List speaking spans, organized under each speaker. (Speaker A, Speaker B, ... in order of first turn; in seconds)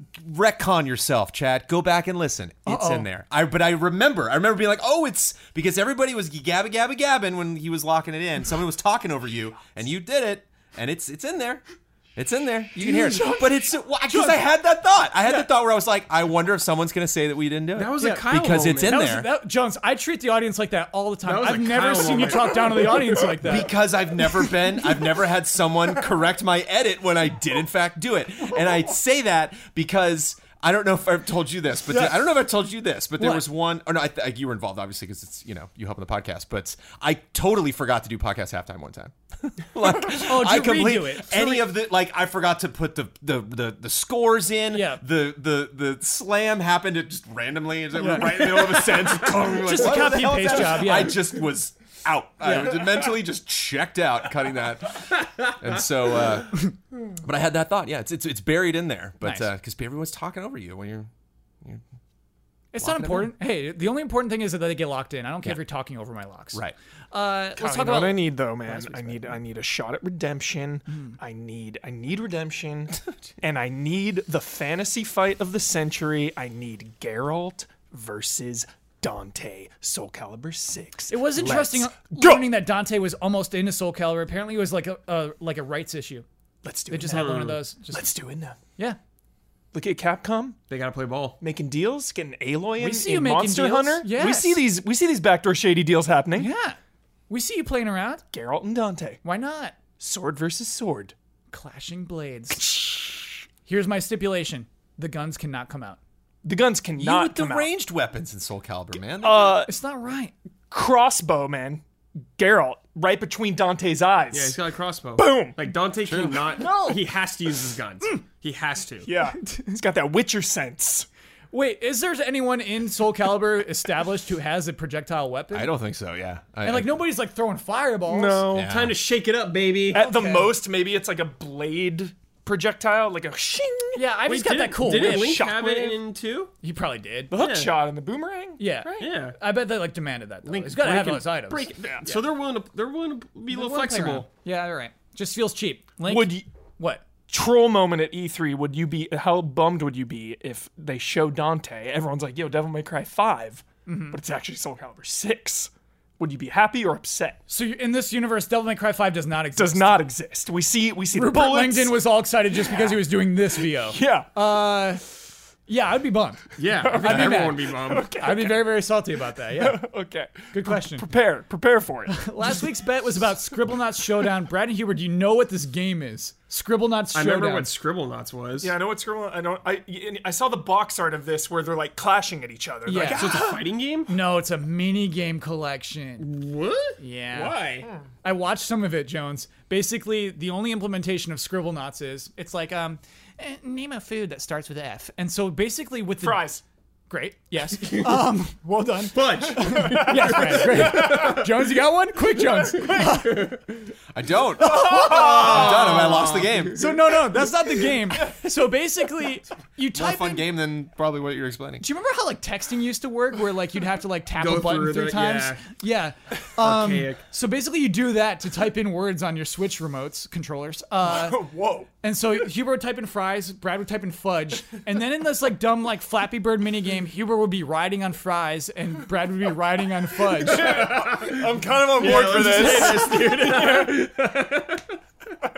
Speaker A: 0.1-11.6, 12.2-19.3, 23.4-56.6, 57.2-61.1, 62.8-63.3, 107.0-109.6, 116.0-116.5, 125.5-127.0, 128.5-129.0, 204.1-206.9, 209.9-211.8
Speaker B: 2.6-3.1, 13.1-13.4, 14.1-14.4, 18.0-23.7, 31.9-32.2, 33.2-33.5, 40.1-41.7, 44.7-45.0, 48.0-48.6, 49.6-51.2, 52.4-52.7, 59.2-59.5, 62.7-66.6, 67.1-69.3, 70.9-71.2, 81.1-86.2, 86.9-88.1, 92.8-94.6, 96.3-96.8, 97.3-98.2, 99.2-99.8, 101.5-106.0, 109.6-110.3, 116.5-117.1, 119.4-119.8, 121.5-125.7, 126.6-128.5, 129.9-130.6, 133.9-135.4, 136.6-137.3, 138.6-142.1, 143.5-147.0, 153.8-154.2, 157.5-160.0, 161.1-165.1, 165.7-166.5, 167.0-169.8, 170.5-171.1, 172.1-177.7, 182.8-183.4, 184.1-186.3, 187.0-187.6, 188.2-196.5, 197.1-203.6, 204.6-206.0, 206.7-210.5, 211.8-221.4, 222.0-230.9, 232.0-233.7
Speaker C: 12.8-13.4, 67.6-82.5, 86.6-88.6, 89.7-90.6, 91.4-96.5, 98.3-99.2, 100.0-101.1, 106.4-107.7, 109.2-109.7, 110.7-114.6, 115.2-115.7, 119.0-121.1, 128.1-128.7, 129.9-136.0, 137.3-139.0, 141.8-142.1, 146.0-146.5, 147.3-157.4, 159.6-162.0, 163.9-164.3, 166.7-168.7, 169.6-172.7, 178.6-183.7, 187.8-188.1, 196.2-196.6, 200.2-200.8, 204.9-206.3, 221.0-221.9, 230.4-233.7
Speaker D: 17.7-19.0, 21.2-23.2, 49.2-49.6, 87.1-87.6, 90.7-91.4, 114.3-119.1, 128.5-130.0, 134.3-136.5, 137.3-137.8, 139.0-139.4, 140.4-144.3, 166.6-168.1, 177.1-178.7, 183.0-184.1, 186.2-187.9, 197.7-198.2, 199.1-201.5, 202.6-203.9, 204.8-206.7, 214.4-215.6, 216.6-217.2, 230.4-235.0